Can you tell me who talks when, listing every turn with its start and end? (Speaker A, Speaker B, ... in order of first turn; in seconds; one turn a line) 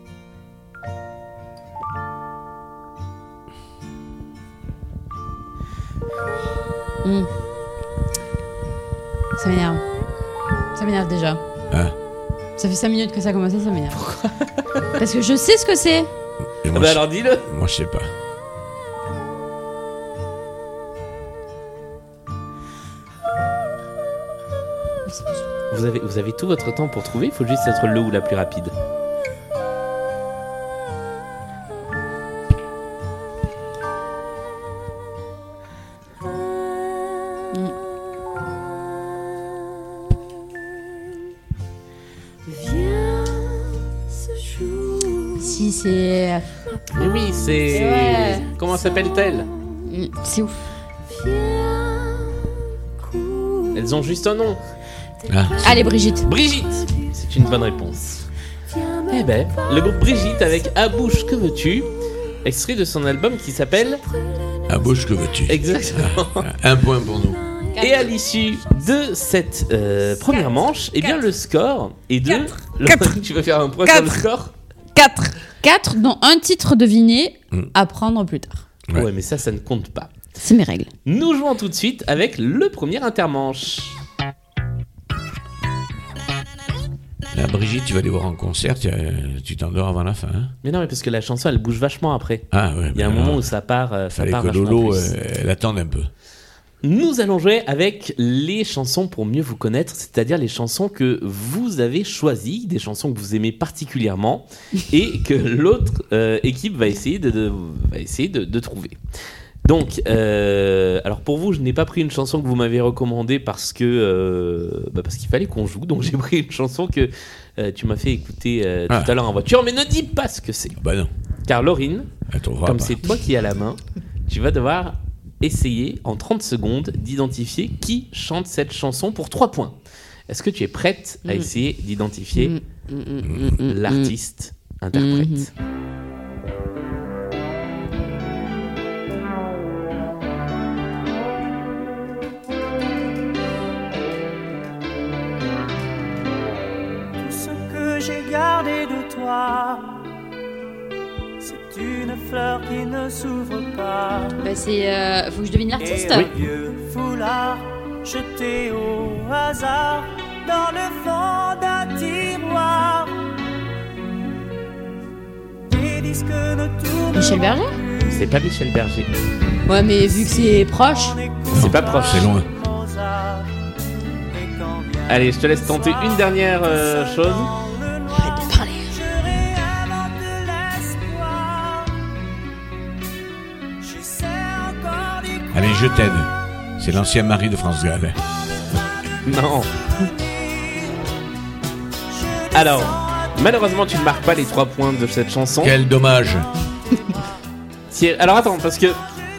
Speaker A: 7.0-7.3
Speaker A: 9.4-9.8
Speaker A: 10.7-11.4
Speaker B: 11.7-11.9
Speaker A: 12.6-14.0
Speaker C: 13.9-14.8
Speaker A: 15.0-16.1
Speaker B: 16.6-18.1
Speaker C: 16.7-17.5
Speaker C: 25.7-28.7
Speaker A: 45.3-46.6
Speaker C: 46.9-49.5
Speaker A: 47.7-48.5
Speaker A: 49.9-50.6
Speaker C: 53.7-54.6
Speaker B: 55.3-55.6
Speaker A: 55.6-56.3
Speaker C: 56.2-58.3
Speaker C: 59.1-61.9
Speaker C: 62.4-64.0
Speaker B: 64.7-67.5
Speaker C: 65.5-66.5
Speaker A: 67.8-68.1
Speaker C: 67.8-74.5
Speaker A: 72.3-73.2
Speaker A: 73.8-74.2
Speaker A: 75.0-78.6
Speaker C: 78.9-80.1
Speaker A: 80.4-80.9
Speaker C: 81.1-84.0
Speaker B: 87.3-90.5
Speaker C: 90.6-95.1
Speaker B: 92.5-93.5
Speaker B: 94.1-96.1
Speaker C: 96.8-109.0
Speaker C: 109.6-120.8
Speaker B: 118.9-119.2
Speaker B: 120.8-121.1
Speaker C: 121.5-122.1
Speaker B: 122.3-123.0
Speaker C: 122.6-129.8
Speaker C: 130.3-132.6
Speaker A: 132.4-134.1
Speaker B: 133.2-133.5
Speaker C: 133.6-135.5
Speaker A: 134.9-135.5
Speaker D: 147.2-150.1
Speaker D: 151.4-154.4
Speaker A: 154.4-156.3
Speaker D: 155.8-163.2
Speaker D: 165.7-168.2
Speaker A: 167.1-167.8
Speaker C: 168.1-169.1
Speaker A: 169.7-171.2
Speaker D: 170.1-173.5
Speaker B: 171.5-172.5
Speaker C: 171.5-172.3
Speaker D: 174.3-182.0
Speaker C: 175.1-177.5
Speaker A: 178.1-178.9
Speaker D: 183.8-185.6
Speaker B: 185.5-188.2
Speaker C: 189.2-189.7
Speaker D: 192.4-192.9
Speaker C: 192.5-195.8
Speaker B: 195.6-196.5
Speaker C: 197.9-199.0